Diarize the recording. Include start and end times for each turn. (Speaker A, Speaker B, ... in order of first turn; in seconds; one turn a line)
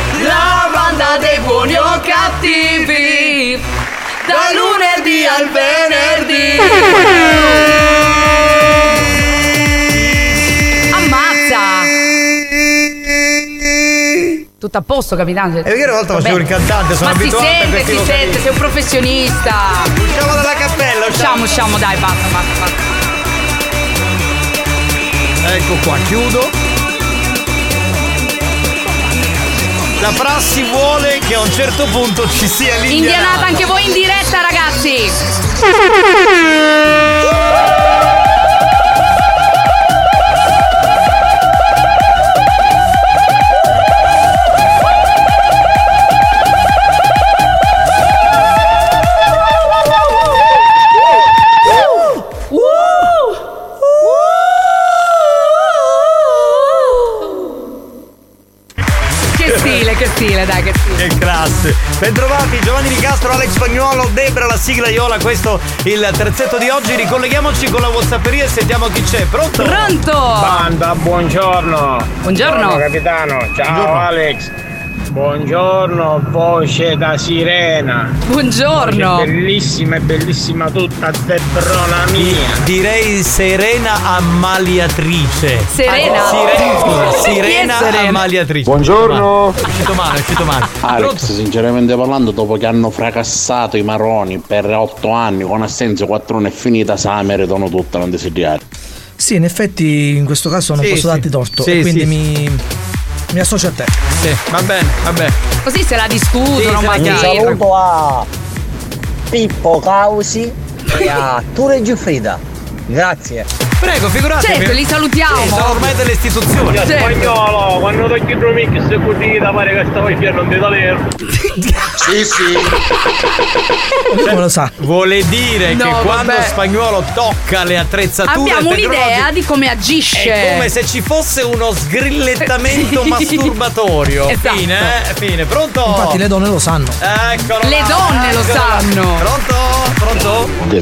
Speaker A: 0.1-3.7
Speaker A: 4.2-7.7
Speaker A: 10.9-11.9
Speaker A: 14.6-16.5
Speaker B: 15.7-18.5
Speaker A: 17.0-19.9
Speaker B: 19.9-21.5
Speaker A: 21.1-22.7
Speaker B: 25.4-26.5
Speaker B: 30.0-33.7
Speaker A: 32.9-35.2
Speaker A: 52.5-53.1
Speaker A: 59.4-61.0
Speaker B: 59.5-59.8
Speaker B: 61.0-69.9
Speaker A: 69.6-70.7
Speaker C: 70.4-74.5
Speaker A: 72.2-72.8
Speaker B: 73.7-74.1
Speaker C: 75.1-78.2
Speaker A: 78.3-79.3
Speaker C: 78.8-82.6
Speaker B: 82.2-91.3
Speaker A: 85.7-88.2
Speaker D: 90.8-98.6
Speaker E: 99.2-102.6
Speaker B: 100.8-102.1
Speaker E: 103.3-103.9
Speaker B: 104.2-105.3
Speaker A: 105.7-107.6
Speaker B: 106.5-107.6
Speaker F: 107.0-108.3
Speaker F: 109.3-113.5
Speaker B: 113.8-117.1
Speaker A: 114.4-115.9
Speaker A: 116.7-117.3
Speaker G: 117.1-121.0
Speaker F: 122.0-122.7
Speaker E: 124.1-124.7
Speaker B: 124.2-129.3
Speaker A: 125.7-126.5
Speaker A: 128.3-130.7
Speaker B: 130.2-136.2
Speaker A: 132.4-133.5
Speaker A: 134.3-134.9
Speaker E: 135.9-137.0
Speaker B: 137.0-140.6
Speaker A: 137.6-139.3